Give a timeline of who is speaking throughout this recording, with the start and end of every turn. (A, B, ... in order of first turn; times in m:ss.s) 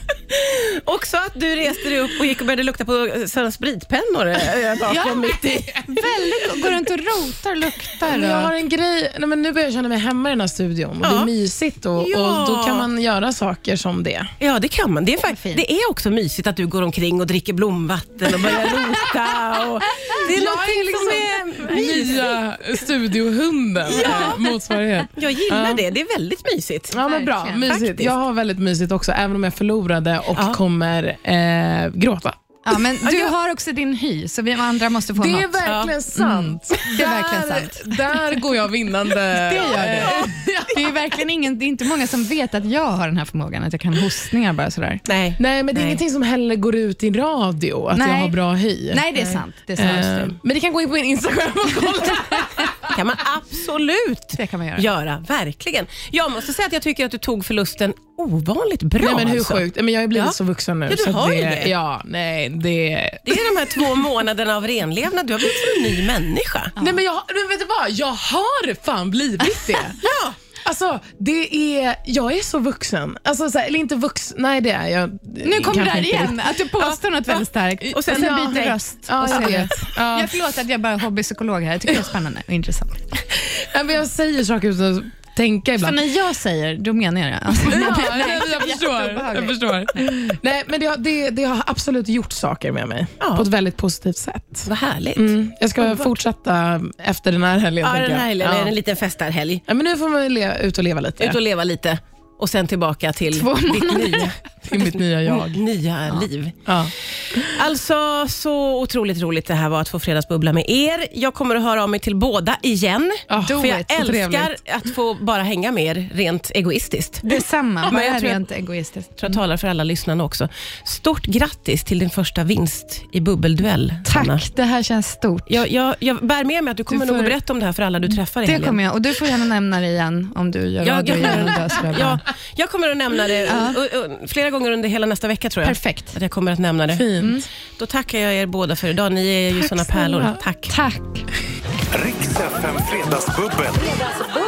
0:00.3-0:06.0 A
0:04.8-0:08.5 B
0:08.0-0:14.3 C
0:11.0-0:11.3 A
0:12.0-0:12.9 A
0:14.4-0:22.4 A
0:15.3-0:15.6 B
0:18.5-0:18.7 B
0:19.9-0:20.2 B
0:20.2-0:25.8 C
0:23.9-0:24.4 A
0:24.0-0:24.3 B
0:25.1-0:27.0 A
0:26.9-0:32.4 C
0:27.0-0:27.7 B
0:27.7-0:28.1 A
0:32.6-0:38.4 B
0:33.0-0:33.3 A
0:35.2-0:41.0 C
0:35.6-0:35.9 A
0:39.2-0:45.0 B
0:45.1-0:46.0 A
0:45.4-0:49.1 C
0:47.9-0:48.4 B
0:48.9-0:50.4 B
0:49.8-0:52.9 C
0:52.9-1:00.4 A
0:54.4-0:54.9 B
0:59.0-1:03.8 C
1:00.9-1:01.7 A
1:03.2-1:06.7 A
1:06.8-1:10.0 C
1:09.5-1:09.8 B
1:10.0-1:10.4 A
1:10.6-1:16.9 C
1:15.4-1:23.0 B
1:17.9-1:18.8 A
1:18.0-1:20.3 C
1:23.3-1:26.0 C
1:25.8-1:29.9 B
1:27.6-1:38.7 C
1:33.2-1:33.4 A
1:34.6-1:36.1 A
1:37.8-1:39.6 A
1:39.7-1:41.4 C
1:41.2-1:57.3 A
1:43.3-1:44.4 B
1:44.7-1:45.6 C
1:46.6-1:47.4 C
1:53.3-1:53.6 C
1:53.4-1:54.5 B
1:57.2-1:59.4 B
1:57.8-1:58.4 A
1:59.2-2:04.4 A
2:04.0-2:05.6 B
2:05.5-2:08.8 A
2:06.9-2:07.3 B
2:08.4-2:12.2 B
2:10.8-2:17.1 A
2:13.5-2:13.8 B
2:15.6-2:16.2 B
2:16.9-2:17.4 C
2:17.2-2:17.5 B
2:17.8-2:20.7 A
2:20.1-2:20.4 C
2:20.7-2:21.3 B
2:21.9-2:24.1 D